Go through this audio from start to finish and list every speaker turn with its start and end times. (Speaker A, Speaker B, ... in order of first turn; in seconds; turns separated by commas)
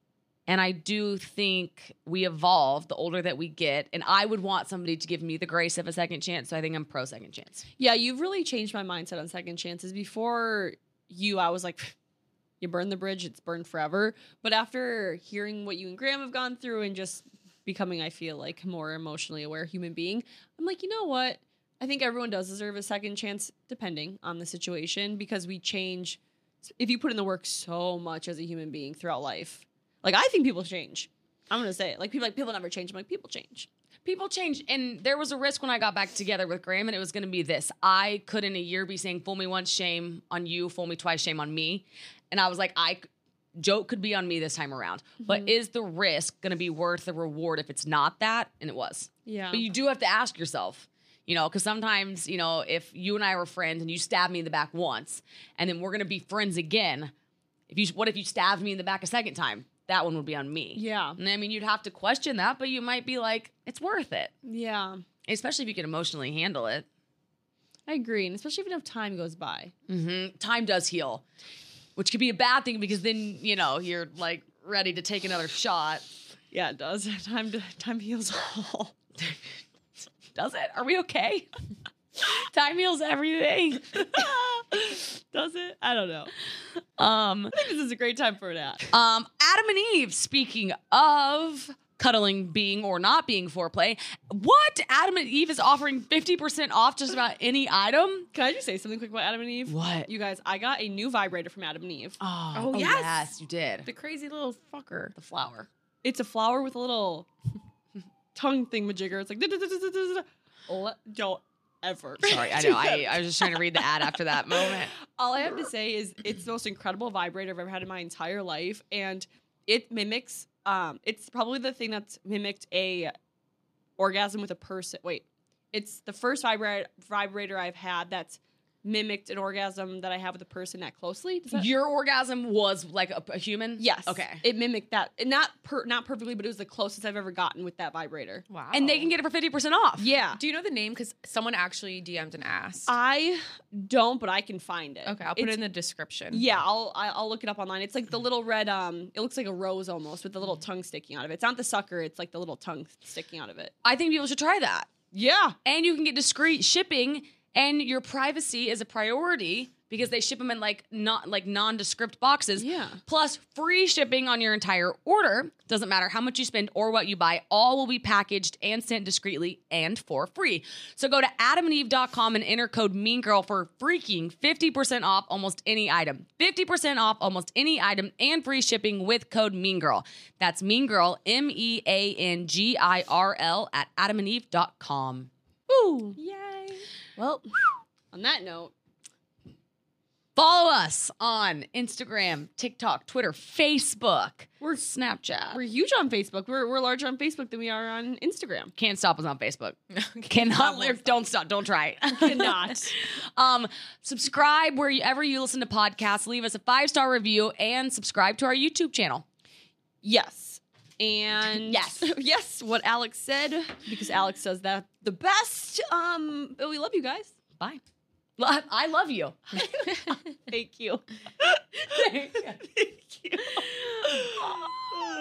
Speaker A: 0.5-7.6, Speaker B: 7.8-11.9, Speaker B: 12.6-26.2, Speaker B: 26.8-33.7, Speaker A: 34.0-57.1, Speaker B: 45.2-45.5, Speaker B: 49.3-49.6, Speaker A: 57.7-64.3, Speaker B: 60.8-61.2, Speaker B: 64.5-65.0, Speaker A: 65.2-66.9, Speaker B: 67.9-69.7, Speaker A: 69.9-71.2, Speaker A: 72.0-76.0, Speaker B: 76.5-79.0, Speaker A: 80.3-81.5, Speaker A: 82.2-84.3, Speaker B: 84.0-86.3, Speaker A: 87.0-87.6, Speaker B: 87.5-88.9, Speaker A: 88.9-98.3, Speaker B: 98.3-102.2, Speaker A: 99.7-100.1, Speaker A: 102.2-103.9, Speaker C: 102.5-103.3, Speaker C: 103.8-105.2, Speaker A: 105.2-105.7, Speaker B: 106.0-107.3, Speaker B: 108.3-113.8, Speaker A: 112.2-114.9, Speaker B: 114.6-123.1, Speaker B: 124.0-131.7, Speaker A: 131.5-134.4, Speaker B: 133.8-138.4, Speaker C: 138.5-139.1, Speaker A: 138.7-140.1, Speaker B: 140.0-140.4, Speaker C: 140.3-142.9, Speaker B: 142.9-145.6, Speaker C: 145.1-146.4, Speaker B: 146.3-153.7, Speaker A: 153.8-154.9, Speaker B: 155.1-155.6, Speaker A: 155.7-185.3, Speaker B: 162.6-163.0, Speaker B: 185.7-187.4, Speaker B: 188.1-188.7, Speaker A: 190.4-195.6, Speaker B: 195.5-198.7, Speaker A: 198.8-209.2, Speaker C: 199.9-201.1, Speaker B: 202.1-203.0, Speaker B: 210.0-217.3, Speaker A: 211.6-212.1, Speaker A: 218.4-219.6, Speaker B: 219.6-225.1, Speaker A: 221.8-222.6